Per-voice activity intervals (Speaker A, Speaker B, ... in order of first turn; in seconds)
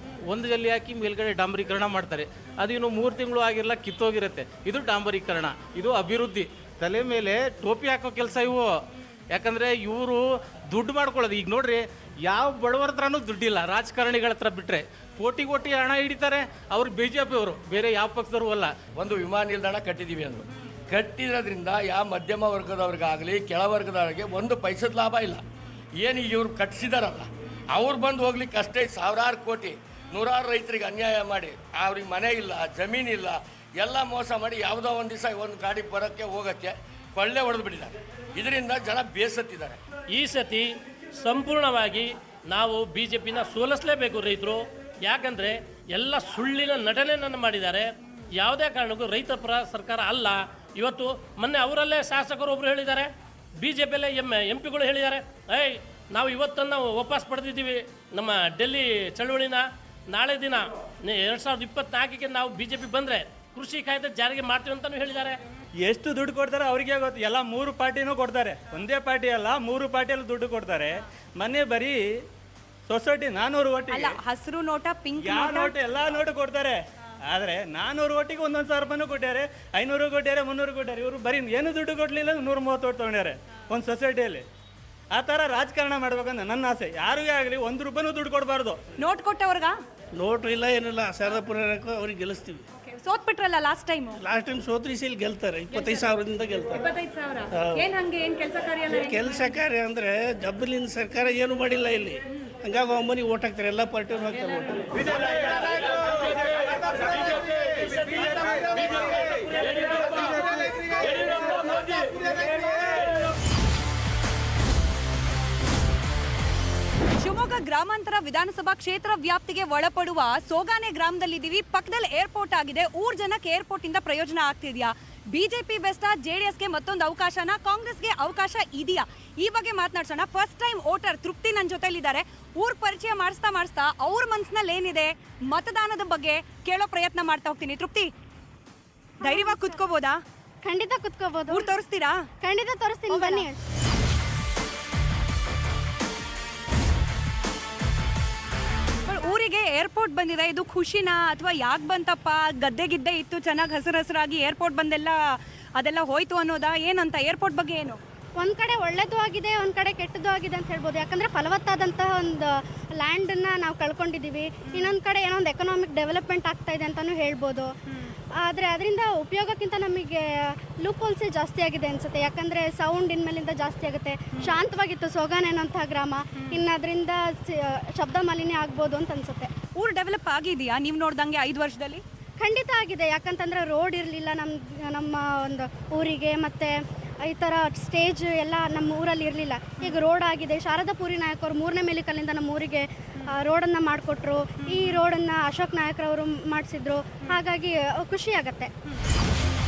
Speaker A: 0.3-8.8, 9.3-18.7
Speaker B: 18.9-25.4, 26.0-39.8
Speaker C: 40.1-47.9, 48.4-53.1, 53.6-65.3
Speaker D: 65.8-72.0, 72.9-74.1, 75.2-76.8, 77.3-84.4, 85.1-88.8
Speaker E: 73.9-75.7, 89.0-89.7, 92.8-94.2, 96.8-99.5, 117.2-138.1, 139.2-140.2, 141.5-142.2, 143.1-143.4, 149.0-155.2, 155.8-158.0, 164.7-164.9, 179.8-182.0, 194.7-195.0
Speaker F: 90.2-92.6, 94.2-96.8, 97.5-97.8, 98.9-104.8
Speaker G: 139.2-139.8, 140.6-141.7, 142.4-143.6, 158.4-167.7, 168.4-179.5, 182.4-198.7